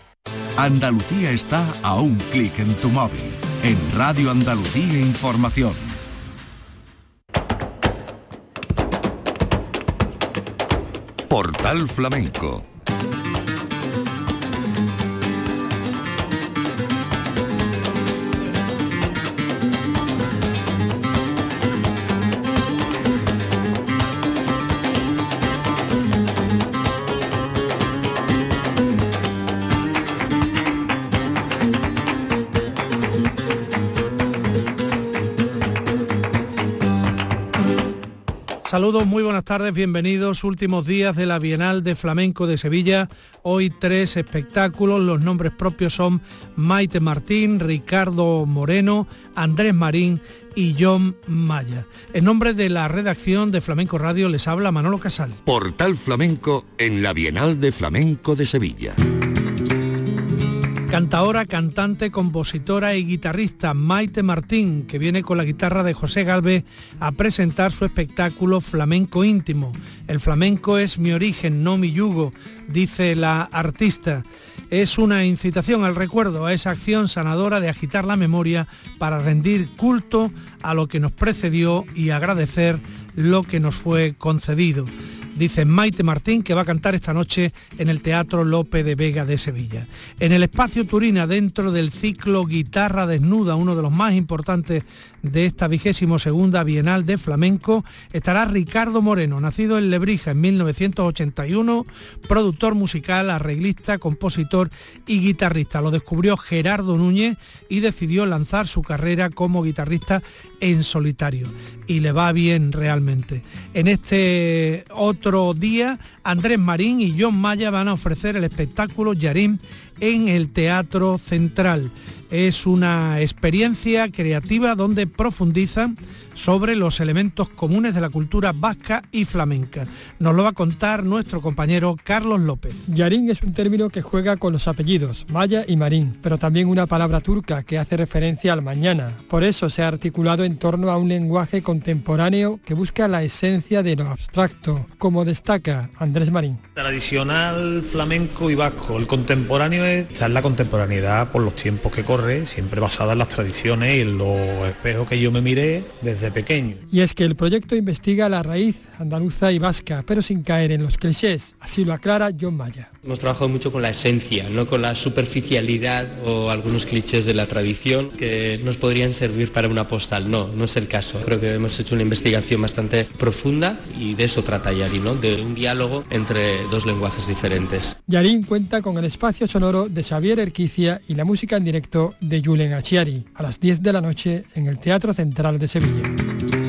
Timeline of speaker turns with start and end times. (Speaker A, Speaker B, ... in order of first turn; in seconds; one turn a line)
Speaker A: 0.6-6.0
Speaker B: 11.3-12.7
Speaker C: 38.7-55.4
Speaker B: 55.5-59.0
Speaker C: 60.9-132.8
Speaker D: 132.9-146.6
Speaker E: 146.8-156.8
Speaker D: 156.9-162.9
Speaker F: 163.0-177.9
Speaker D: 178.1-186.1